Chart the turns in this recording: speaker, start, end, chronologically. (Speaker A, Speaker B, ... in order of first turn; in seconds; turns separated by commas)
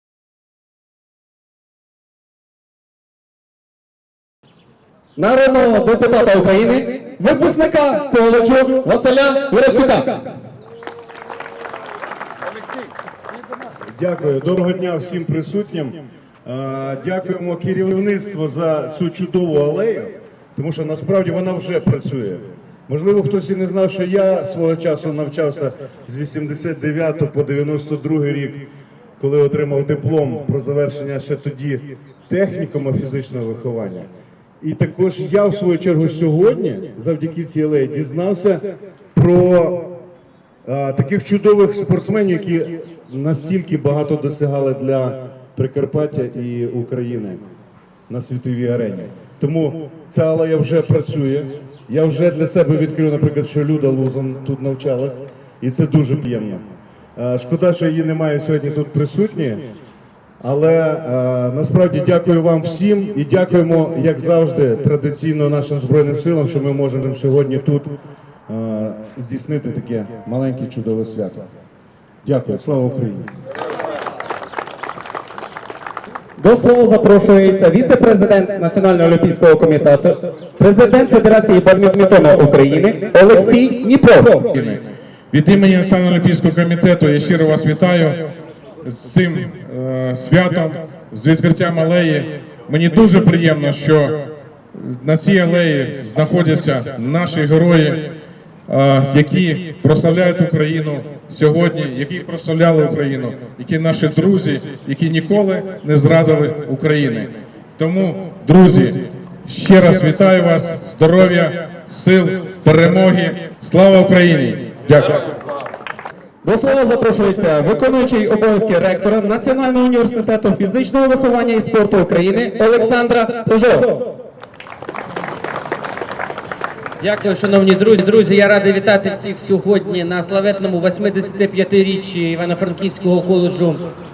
Speaker A: 5.2-10.2, Speaker B: 14.0-28.6, Speaker B: 29.2-34.1, Speaker B: 34.6-39.9, Speaker B: 40.6-47.4, Speaker B: 48.1-56.6, Speaker B: 57.2-59.6, Speaker B: 60.4-67.9, Speaker B: 68.5-71.4, Speaker B: 72.2-73.3, Speaker A: 76.4-84.4, Speaker C: 84.4-88.3, Speaker C: 88.8-94.2, Speaker C: 94.7-98.1, Speaker C: 98.7-115.2, Speaker A: 116.4-124.0, Speaker D: 127.0-133.9